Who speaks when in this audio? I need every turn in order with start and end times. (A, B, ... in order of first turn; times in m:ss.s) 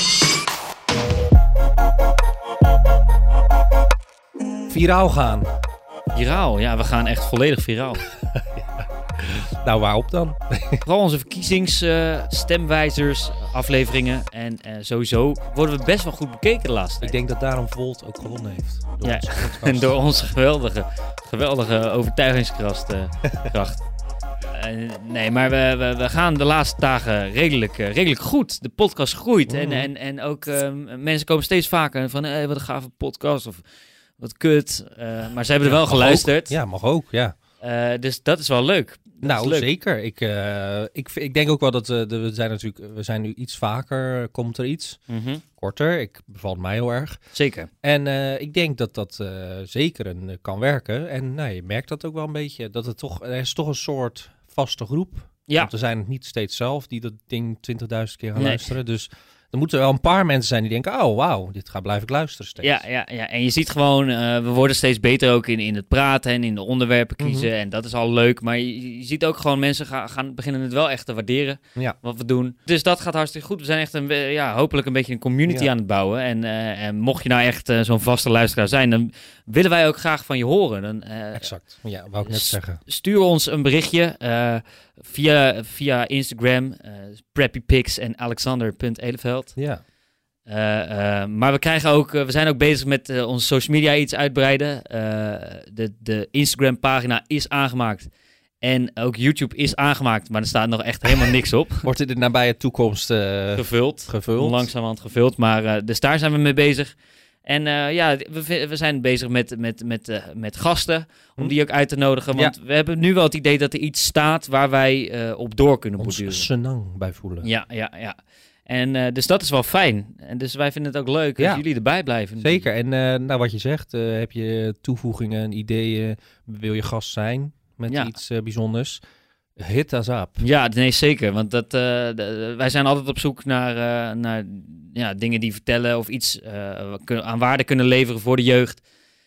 0:04.7-0:05.5 A
0:06.1-0:08.0 B
0:08.2-0:10.8 A
0:10.8-0:17.2 B
0:17.0-0:20.0 A
0:19.0-0:23.8 B
0:24.5-0:33.7 B
0:29.5-0:29.9 A
0:34.2-0:36.6 B
0:35.6-0:37.3 A
0:37.6-0:39.7 B
0:39.2-0:45.0 A
0:45.1-0:45.4 B
0:45.6-0:47.2 A
0:47.3-0:47.7 B
0:47.8-1:02.8 A
0:55.5-0:55.7 B
0:58.4-0:58.7 B
1:02.6-1:21.6 B
1:07.2-1:07.5 A
1:21.3-1:22.8 A
1:22.2-1:29.6 B
1:30.5-1:41.9 B
1:41.8-1:44.7 A
1:43.6-1:56.5 B
1:56.0-1:57.5 A
1:57.4-2:02.7 B
2:01.4-2:01.6 A
2:02.4-2:09.0 A
2:07.9-2:08.1 B
2:09.6-2:10.5 A
2:10.4-2:18.8 B